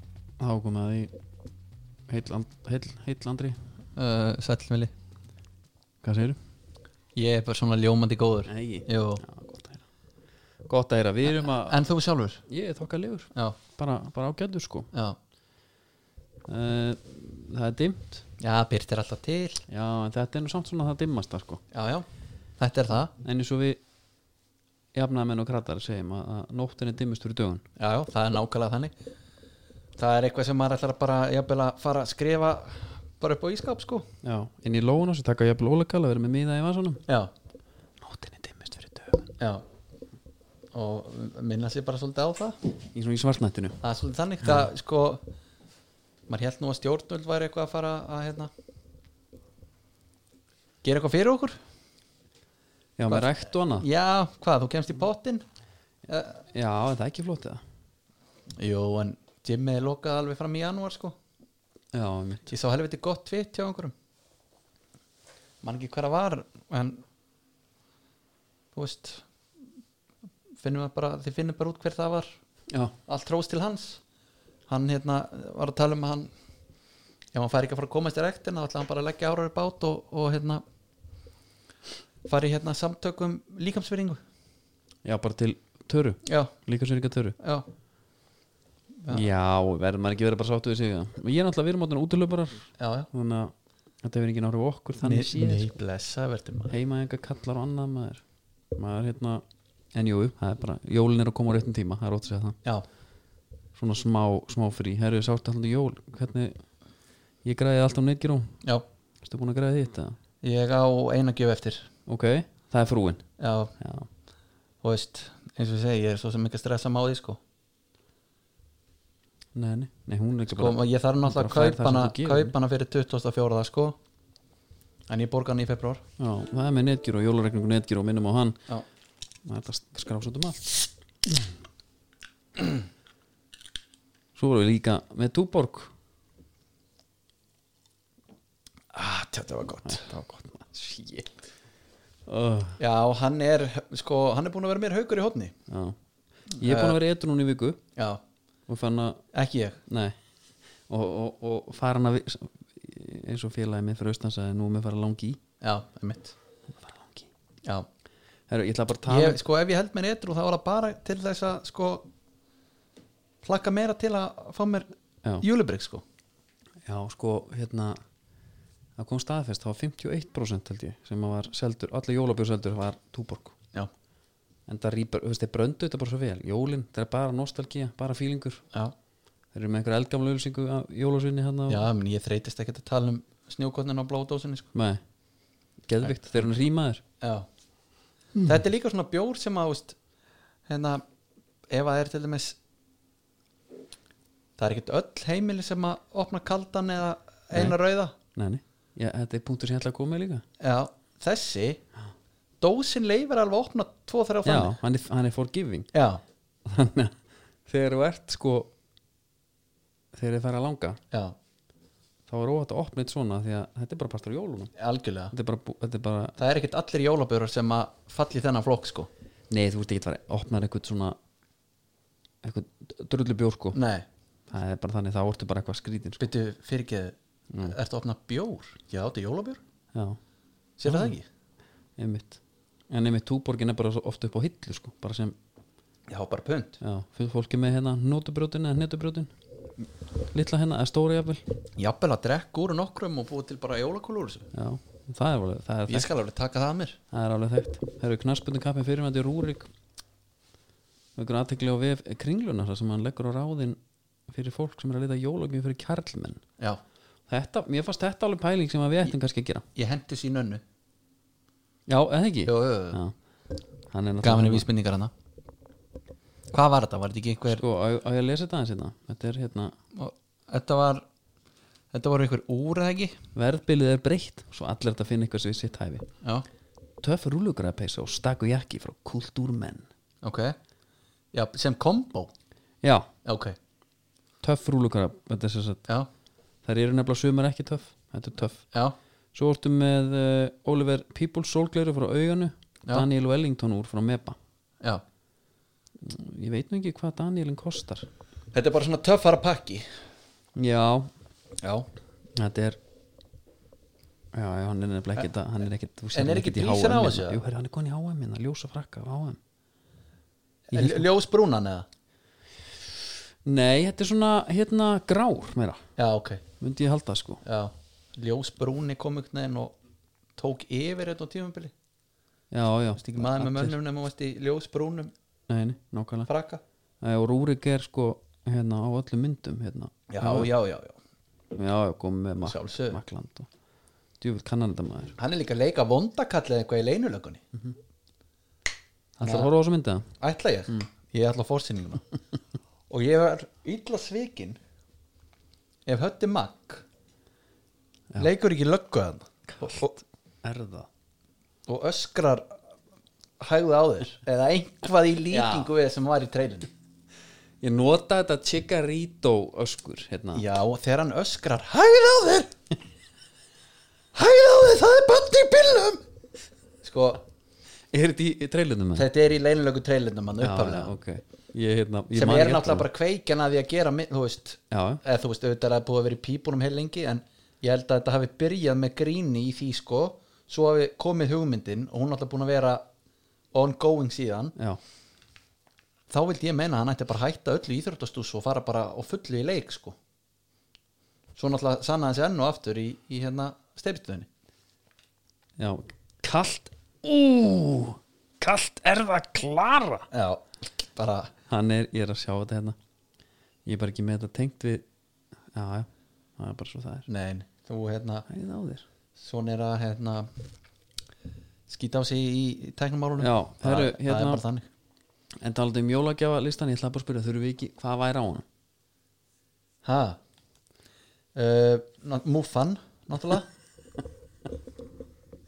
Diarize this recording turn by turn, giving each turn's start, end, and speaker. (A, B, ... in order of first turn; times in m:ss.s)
0:00.4-0:01.1 A
0:02.1-0:03.6 A
0:04.0-0:04.9 B
0:06.0-0:06.4 A
0:07.2-0:09.2 B
0:08.5-0:09.8 A
0:10.6-0:11.8 A
0:11.4-0:12.4 B
0:12.5-0:14.9 A
0:16.5-0:18.2 A
0:18.4-0:19.6 B
0:19.7-0:21.6 A
0:21.7-0:22.0 B
0:22.6-0:23.1 B
0:23.2-0:23.8 A
0:24.9-0:27.6 A
0:27.8-0:28.9 B
0:30.0-0:34.0 B
0:34.2-0:37.0 A
0:37.1-0:37.3 B
0:38.0-0:39.3 A
0:40.7-0:42.6 B
0:42.9-0:43.8 A
0:43.8-0:45.2 B
0:46.3-0:48.5 B
0:50.8-0:51.6 B
0:53.0-0:53.8 A
0:53.1-0:55.4 B
0:56.1-0:56.4 B
0:56.5-0:57.6 A
0:58.6-1:01.2 B
1:01.9-1:02.5 A
1:02.5-1:03.9 B
1:05.6-1:07.0 B
1:08.7-1:09.2 B
1:10.6-1:12.3 B
1:13.1-1:14.0 B
1:14.7-1:16.3 B
1:17.3-1:20.6 B
1:22.2-1:24.2 B
1:25.0-1:27.4 A
1:26.2-1:26.5 B
1:27.4-1:27.6 B
1:29.1-1:35.7 A
1:32.8-1:33.1 B
1:35.0-1:36.8 B
1:36.7-1:38.2 A
1:38.7-1:42.6 A
1:43.7-1:46.6 A
1:47.4-1:48.6 A
1:49.2-1:50.2 A
1:50.4-1:51.9 B
1:52.0-1:53.2 A
1:53.4-1:53.7 B
1:53.8-1:54.1 A
1:54.8-1:57.4 B
1:59.5-2:02.5 A
2:00.5-2:04.0 B
2:05.1-2:06.0 B
2:06.2-2:08.6 A
2:09.4-2:10.8 A
2:14.4-2:15.9 A
2:18.9-2:20.1 B
2:19.8-2:21.3 A
2:22.3-2:22.8 A
2:22.8-2:25.5 B
2:25.7-2:26.0 A
2:26.5-2:27.0 B
2:26.6-2:27.8 A
2:28.7-2:29.2 A
2:29.3-2:29.8 B
2:29.9-2:30.2 A
2:30.9-2:35.4 A
2:35.6-2:36.3 B
2:36.7-2:37.3 A
2:38.5-2:39.4 A
2:39.1-2:42.1 B
2:43.4-2:44.9 B
2:45.4-2:46.0 B
2:46.8-2:48.0 A
2:49.0-2:53.5 A
2:54.7-2:58.6 A
2:59.5-3:01.8 A
3:01.7-3:04.7 B
3:04.7-3:05.0 A
3:05.8-3:07.0 A
3:06.0-3:06.6 B
3:07.2-3:07.5 B
3:08.4-3:10.0 B
3:10.7-3:11.0 B
3:11.7-3:12.6 B
3:14.6-3:18.1 B
3:18.3-3:20.4 A
3:20.6-3:21.8 B
3:22.6-3:24.7 B
3:24.4-3:25.9 A
3:25.9-3:26.2 B
3:26.6-3:28.7 A
3:30.1-3:31.0 A
3:32.3-3:34.7 A
3:34.8-3:35.3 B
3:35.3-3:36.4 A
3:36.4-3:39.1 B
3:39.5-3:41.2 A
3:42.4-3:43.8 A
3:43.7-3:44.0 B
3:44.5-3:46.2 A
3:46.2-3:49.6 B
3:47.5-3:47.8 A
3:49.9-3:50.2 A
3:50.8-3:51.3 B
3:50.8-3:51.1 A
3:52.0-3:55.4 A
3:56.1-3:56.8 B
3:56.8-3:59.3 A
4:00.3-4:01.4 A
4:01.8-4:04.5 B
4:04.5-4:06.1 A
4:05.9-4:07.0 B
4:07.1-4:09.7 A
4:11.2-4:16.4 A
4:17.3-4:19.6 A
4:19.7-4:20.6 B
4:21.9-4:23.1 A
4:22.4-4:23.0 B
4:23.9-4:24.6 A
4:24.2-4:25.1 B
4:26.5-4:27.6 B
4:27.5-4:29.7 A
4:29.9-4:31.0 B
4:31.9-4:33.2 B
4:33.3-4:36.0 A
4:36.2-4:36.5 B
4:37.0-4:39.8 A
4:40.2-4:40.6 B
4:41.3-4:42.3 B
4:42.8-4:43.1 A
4:43.2-4:43.6 B
4:44.4-4:45.8 A
4:46.6-4:48.6 A
4:49.3-4:54.4 A
4:56.0-4:58.1 A
4:58.5-4:59.9 B
5:00.5-5:01.1 A
5:01.6-5:01.9 B
5:02.3-5:02.8 A
5:04.3-5:09.4 A
5:06.1-5:07.4 B
5:10.7-5:11.8 B
5:10.7-5:11.0 A
5:13.4-5:15.8 A
5:16.0-5:16.4 B
5:16.6-5:17.4 A
5:17.4-5:19.7 B
5:20.4-5:21.7 B
5:22.5-5:23.7 A
5:23.0-5:25.1 B
5:25.5-5:26.3 A
5:26.3-5:26.6 B
5:27.0-5:30.5 A
5:30.1-5:31.0 B
5:31.5-5:33.5 A
5:32.4-5:33.0 B
5:34.2-5:35.1 A
5:35.2-5:37.4 B
5:39.2-5:40.1 A
5:39.2-5:39.5 B
5:40.2-5:42.0 B
5:42.9-5:44.6 B
5:45.8-5:46.8 B
5:48.2-5:50.0 B
5:50.4-5:50.9 A
5:51.7-5:52.5 B
5:53.4-5:56.7 B
5:55.3-5:55.7 A
5:57.6-6:00.4 A
6:00.3-6:02.5 B
6:04.1-6:06.0 B
6:06.8-6:07.2 B
6:07.9-6:09.1 A
6:08.9-6:10.9 B
6:10.4-6:12.9 A
6:12.1-6:22.8 B
6:14.7-6:15.0 A
6:23.5-6:24.5 B
6:26.1-6:30.0 B
6:31.4-6:34.3 B
6:35.6-6:40.1 A
6:40.1-6:41.3 B
6:41.5-6:42.8 A
6:43.6-6:44.8 A
6:45.5-6:47.0 A
6:47.1-6:48.3 B
6:48.3-6:48.8 A
6:49.2-6:50.3 B
6:51.7-6:54.6 B
6:53.2-6:54.4 A
6:55.4-6:58.4 A
6:59.8-7:00.2 B
7:01.3-7:03.5 B